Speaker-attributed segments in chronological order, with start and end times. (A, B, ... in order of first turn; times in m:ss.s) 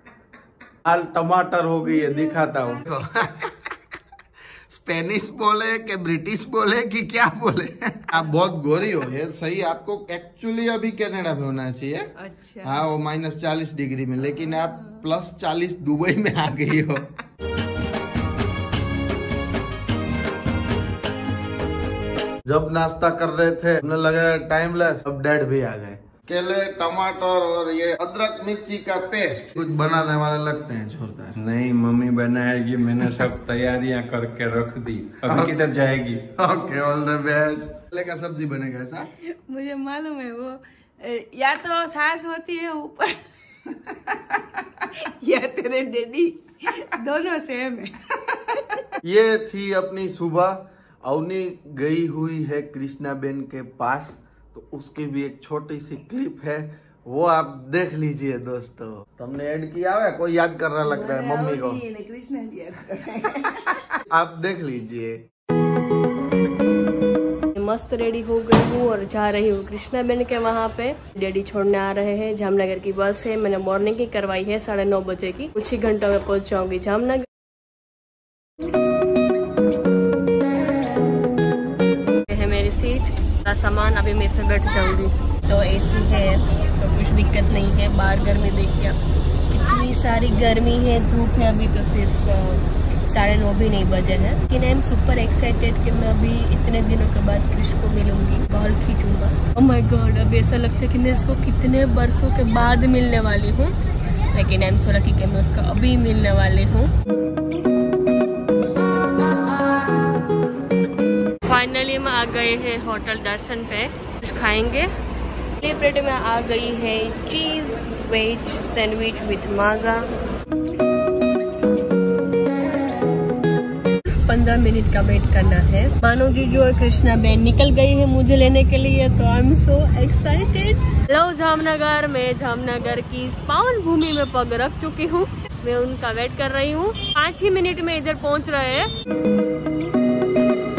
0:00.8-0:03.6 A
0:01.9-0:02.7 B
0:04.7-0:12.1 A
0:12.2-0:12.8 B
0:12.6-0:17.2 A
0:14.5-0:15.0 B
0:22.5-0:31.4 A
0:31.4-0:36.2 C
0:35.3-0:35.6 A
0:36.4-0:39.1 A
0:39.2-0:43.2 B
0:44.8-0:48.9 B
0:49.0-1:01.8 A
1:00.8-1:03.8 B
1:04.1-1:05.2 A
1:07.6-1:17.3 D
1:22.3-1:29.0 D
1:29.5-1:43.8 D
1:44.3-1:46.9 D
1:51.5-1:54.9 D
1:55.6-2:00.1 D
2:04.1-2:18.9 D